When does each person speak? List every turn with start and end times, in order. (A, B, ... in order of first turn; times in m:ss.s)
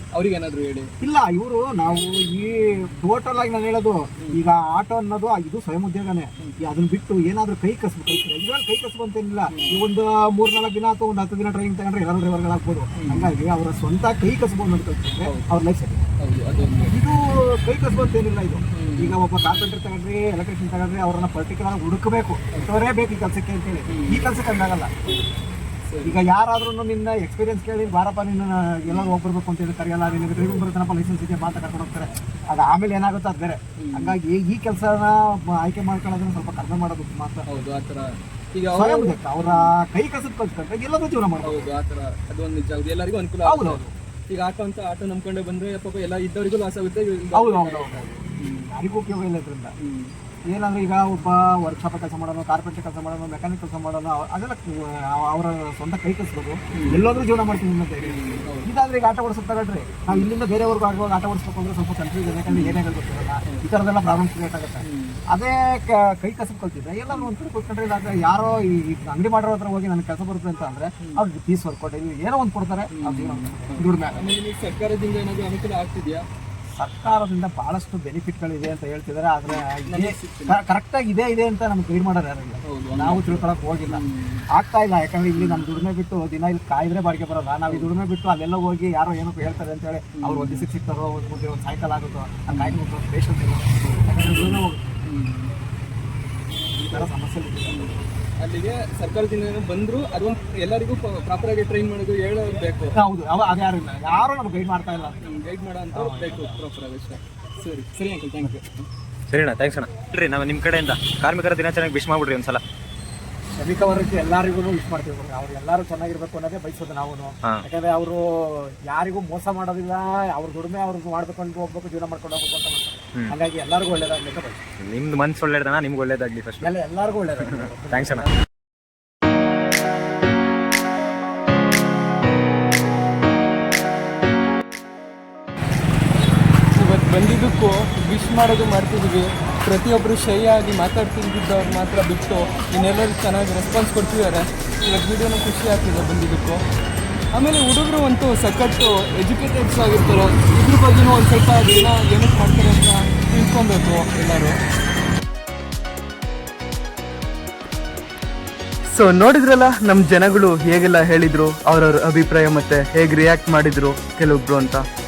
0:00.2-0:00.9 A
0:01.0-0:16.0 B
0:09.5-0:09.8 A
0:12.9-0:13.4 A
0:15.2-0:15.5 A
0:16.2-0:16.9 A
0:16.9-0:24.9 B
0:18.7-0:19.2 A
0:23.9-0:24.3 A
0:25.8-0:26.2 A
0:26.0-0:37.4 B
0:28.9-0:29.1 A
0:33.8-0:34.2 A
0:37.5-0:39.7 A
0:38.7-0:41.7 B
0:41.4-0:48.7 A
0:43.4-0:43.9 B
0:47.3-0:49.7 B
0:49.8-0:50.1 A
0:50.5-1:14.2 B
0:56.7-0:57.0 A
0:58.0-0:58.7 A
1:02.5-1:02.8 A
1:04.8-1:05.2 A
1:12.9-1:16.2 A
1:16.8-1:24.0 B
1:19.5-1:20.6 A
1:22.6-1:24.4 A
1:24.5-1:34.8 B
1:25.4-1:25.7 A
1:30.2-1:30.7 A
1:32.5-1:32.8 A
1:34.0-1:35.5 A
1:36.8-1:37.1 A
1:36.9-1:38.0 B
1:37.7-1:43.0 A
1:43.0-1:45.3 B
1:45.2-1:48.8 A
1:45.9-1:46.5 B
1:49.3-1:52.6 C
1:53.6-2:04.6 B
2:04.8-2:06.7 C
2:06.6-2:08.3 B
2:07.4-2:08.3 C
2:16.7-2:26.6 A
2:27.4-2:34.6 A
2:38.9-2:44.9 A